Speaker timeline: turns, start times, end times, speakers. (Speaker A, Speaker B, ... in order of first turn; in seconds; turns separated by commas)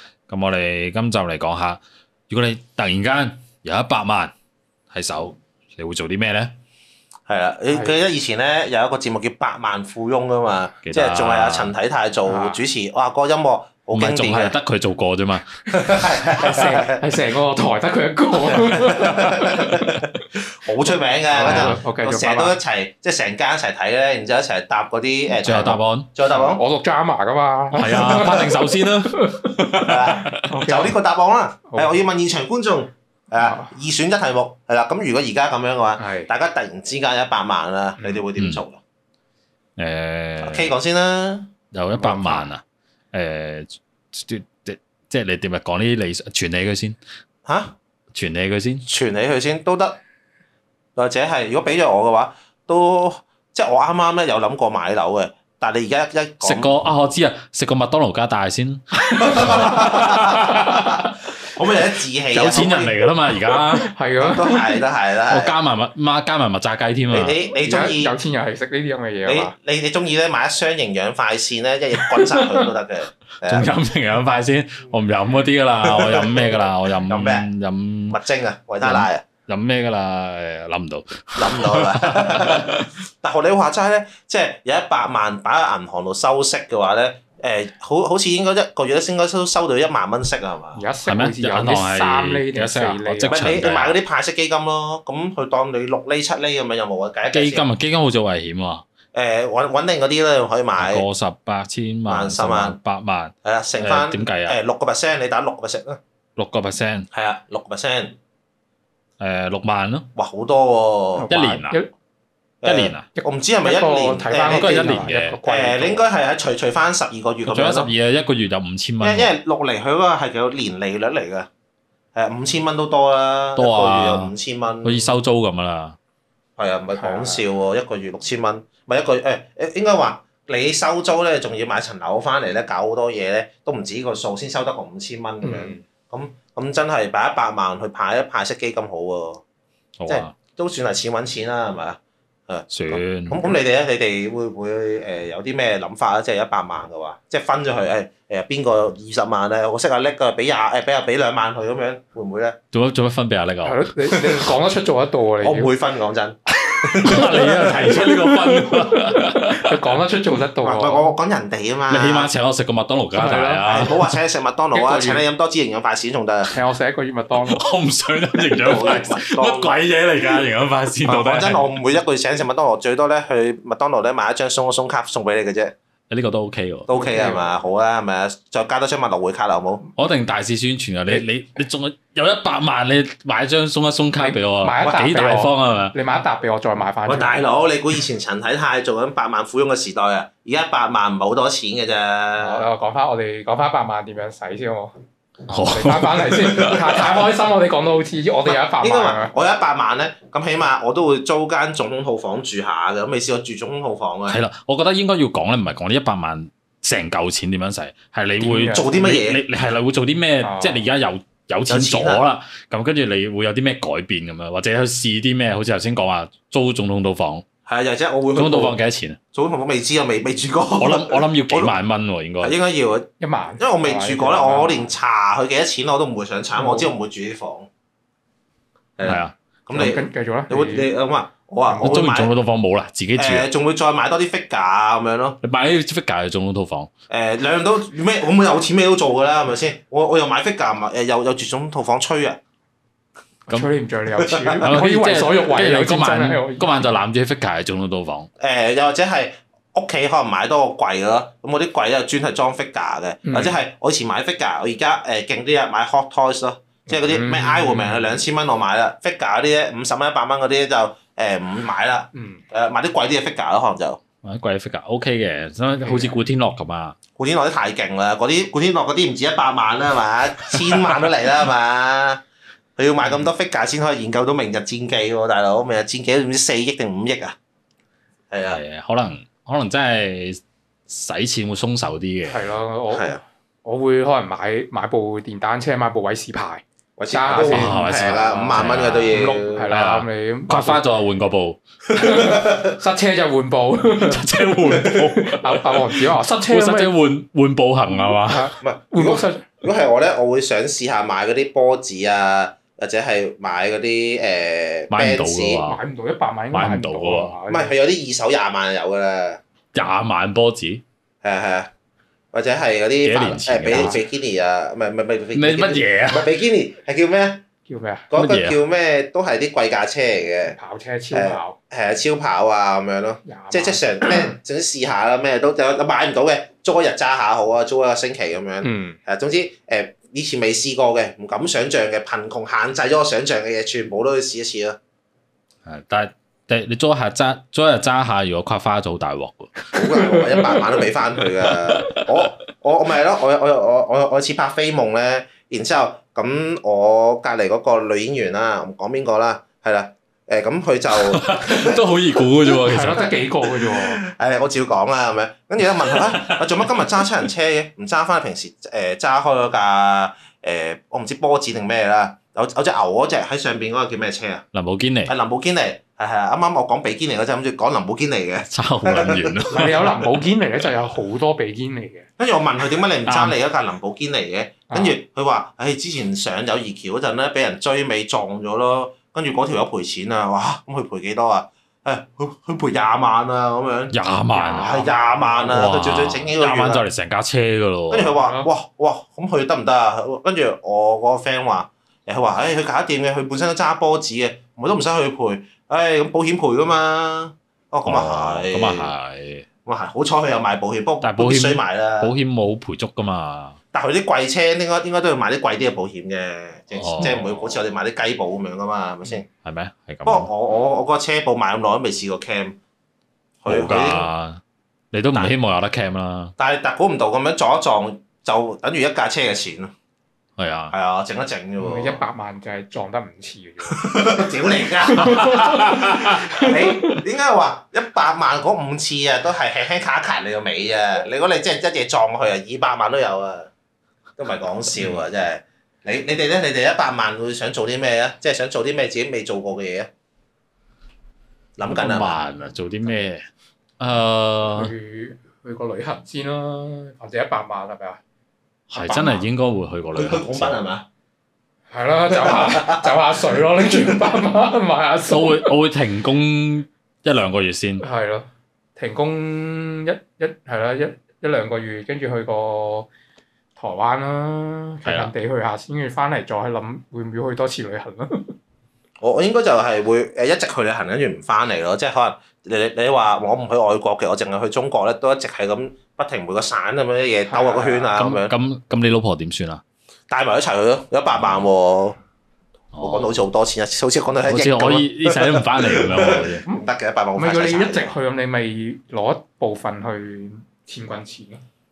Speaker A: 0.3-4.3, Speaker A: 4.9-6.5, Speaker B: 7.3-14.6, Speaker A: 10.8-11.7, Speaker C: 12.2-12.6, Speaker A: 13.9-16.0, Speaker B: 15.7-17.0, Speaker C: 16.4-19.8, Speaker B: 18.6-26.6, Speaker C: 21.3-22.6, Speaker A: 21.4-21.8, Speaker A: 25.4-26.1, Speaker C: 26.3-29.5, Speaker A: 27.7-30.5, Speaker B: 29.9-38.8, Speaker C: 30.4-31.0, Speaker C: 31.7-32.0, Speaker C: 33.4-33.7, Speaker C: 36.0-36.3, Speaker C: 38.0-38.2, Speaker A: 38.4-38.6, Speaker A: 39.8-40.7, Speaker B: 40.4-41.5, Speaker A: 41.7-47.0, Speaker C: 41.9-42.5, Speaker B: 47.5-47.8, Speaker A: 48.1-48.9, Speaker B: 48.9-50.0, Speaker B: 51.0-56.7, Speaker A: 56.4-61.2, Speaker B: 59.2-63.1, Speaker A: 62.3-63.9, Speaker C: 63.8-64.8, Speaker B: 64.2-65.5, Speaker A: 65.3-67.3, Speaker B: 67.1-68.1, Speaker C: 67.5-69.5, Speaker B: 69.2-73.7, Speaker A: 73.4-78.2, Speaker B: 75.9-77.5, Speaker B: 78.1-79.2, Speaker A: 78.8-82.9, Speaker B: 81.4-90.8, Speaker C: 90.7-93.6, Speaker A: 91.1-94.0, Speaker B: 93.3-97.7, Speaker A: 97.3-98.8, Speaker B: 99.1-101.0, Speaker A: 100.8-104.6, Speaker B: 102.1-102.8, Speaker B: 103.4-106.0, Speaker A: 106.4-107.1, Speaker B: 107.1-108.2, Speaker A: 109.2-110.0, Speaker B: 110.2-111.3, Speaker C: 111.2-111.9, Speaker A: 111.3-111.8, Speaker B: 112.6-117.9, Speaker A: 112.6-113.1, Speaker C: 113.2-116.1, Speaker A: 114.5-115.4, Speaker A: 117.5-119.3, Speaker B: 119.0-121.5, Speaker B: 122.2-125.2, Speaker A: 123.6-124.3, Speaker A: 124.8-126.0, Speaker B: 126.6-139.4, Speaker C: 127.0-127.4, Speaker C: 135.4-135.8, Speaker A: 140.0-140.3, Speaker B: 140.1-152.6, Speaker A: 142.7-143.4, Speaker A: 152.7-153.8, Speaker C: 153.6-155.7, Speaker B: 155.4-157.5, Speaker A: 156.7-159.7, Speaker C: 157.9-159.0, Speaker C: 159.6-161.1, Speaker B: 160.6-162.3, Speaker A: 161.9-163.9, Speaker C: 163.1-164.0, Speaker B: 163.7-166.5, Speaker C: 164.7-165.2, Speaker C: 166.5-167.6, Speaker A: 167.5-171.6, Speaker B: 168.5-169.8, Speaker B: 171.1-175.7, Speaker A: 176.1-176.9, Speaker B: 176.9-179.9, Speaker C: 176.9-177.5, Speaker A: 180.0-185.9, Speaker C: 184.2-187.4, Speaker B: 187.1-192.7, Speaker C: 192.4-199.3, Speaker A: 195.5-196.8, Speaker B: 196.7-197.1, Speaker B: 198.4-204.4, Speaker A: 204.3-217.4, Speaker C: 208.4-209.2, Speaker B: 208.7-209.4, Speaker C: 210.4-210.9, Speaker B: 211.7-212.2, Speaker B: 217.7-218.8, Speaker A: 218.3-219.2, Speaker B: 219.3-221.7, Speaker A: 220.8-222.6, Speaker B: 222.4-227.7, Speaker C: 223.2-224.9, Speaker C: 226.6-226.9, Speaker B: 229.0-232.3, Speaker A: 229.0-229.3, Speaker C: 229.7-230.9, Speaker C: 231.7-232.0, Speaker A: 231.8-233.5, Speaker B: 233.2-235.4, Speaker A: 235.4-236.9, Speaker B: 237.1-242.4, Speaker C: 243.5-246.8, Speaker B: 244.2-244.8, Speaker A: 244.6-248.3, Speaker B: 248.4-264.0, Speaker C: 253.2-253.6, Speaker C: 256.9-258.2, Speaker C: 262.1-262.4, Speaker A: 264.2-267.0, Speaker C: 265.8-266.2, Speaker B: 267.2-272.2, Speaker B: 272.8-277.4, Speaker B: 278.3-278.6, Speaker A: 278.4-282.4, Speaker C: 282.3-290.8, Speaker B: 282.9-283.2, Speaker B: 287.0-289.7, Speaker A: 287.3-291.6, Speaker C: 291.9-296.9, Speaker B: 292.1-292.6, Speaker A: 293.9-298.5, Speaker C: 297.9-299.6, Speaker B: 298.6-305.6, Speaker A: 304.9-305.8, Speaker C: 305.7-307.7, Speaker A: 306.5-307.3, Speaker B: 307.5-309.4, Speaker A: 309.8-310.8, Speaker B: 311.2-311.7, Speaker B: 312.3-317.4, Speaker A: 313.0-313.9, Speaker C: 313.7-314.0, Speaker A: 315.3-316.3, Speaker C: 317.7-318.1, Speaker B: 318.1-320.6, Speaker A: 318.1-318.6, Speaker C: 320.6-321.6, Speaker B: 321.1-334.8, Speaker C: 323.2-324.3, Speaker C: 328.6-329.0, Speaker A: 335.6-339.5, Speaker B: 339.7-351.8, Speaker C: 339.8-340.7, Speaker A: 351.0-353.1, Speaker C: 352.6-354.0, Speaker B: 353.4-364.4, Speaker A: 364.5-365.1, Speaker B: 365.1-369.9, Speaker A: 368.5-370.0, Speaker C: 369.5-372.1, Speaker B: 372.2-384.0, Speaker A: 373.1-373.4, Speaker C: 374.7-375.0, Speaker A: 383.9-384.7, Speaker C: 384.3-385.7, Speaker B: 384.5-386.8, Speaker A: 385.5-388.1, Speaker B: 387.9-398.9, Speaker C: 388.1-388.5, Speaker A: 397.9-399.5, Speaker B: 399.7-402.1, Speaker A: 401.0-403.6, Speaker B: 403.7-409.3, Speaker A: 406.7-407.5, Speaker A: 409.4-410.3, Speaker B: 410.1-412.6, Speaker B: 413.4-414.1, Speaker A: 413.5-416.3, Speaker B: 416.4-419.7, Speaker A: 420.4-420.7, Speaker B: 420.7-422.0, Speaker C: 421.6-424.1, Speaker B: 423.6-433.5, Speaker C: 424.8-427.0, Speaker A: 425.0-426.2, Speaker B: 434.2-439.9, Speaker B: 441.6-442.2, Speaker A: 441.6-443.3, Speaker A: 443.8-444.7, Speaker C: 444.5-448.0, Speaker A: 448.7-450.6, Speaker C: 448.8-449.2, Speaker B: 449.9-450.9, Speaker C: 451.7-455.6, Speaker B: 452.1-454.1, Speaker A: 455.0-457.9, Speaker C: 457.8-462.9, Speaker C: 463.6-468.4, Speaker A: 464.9-465.1, Speaker B: 469.0-478.3, Speaker C: 477.3-478.0, Speaker A: 478.0-479.6, Speaker B: 480.1-482.0, Speaker A: 481.2-481.4, Speaker A: 482.7-483.2, Speaker B: 482.8-488.0, Speaker A: 484.2-486.4, Speaker C: 486.4-491.4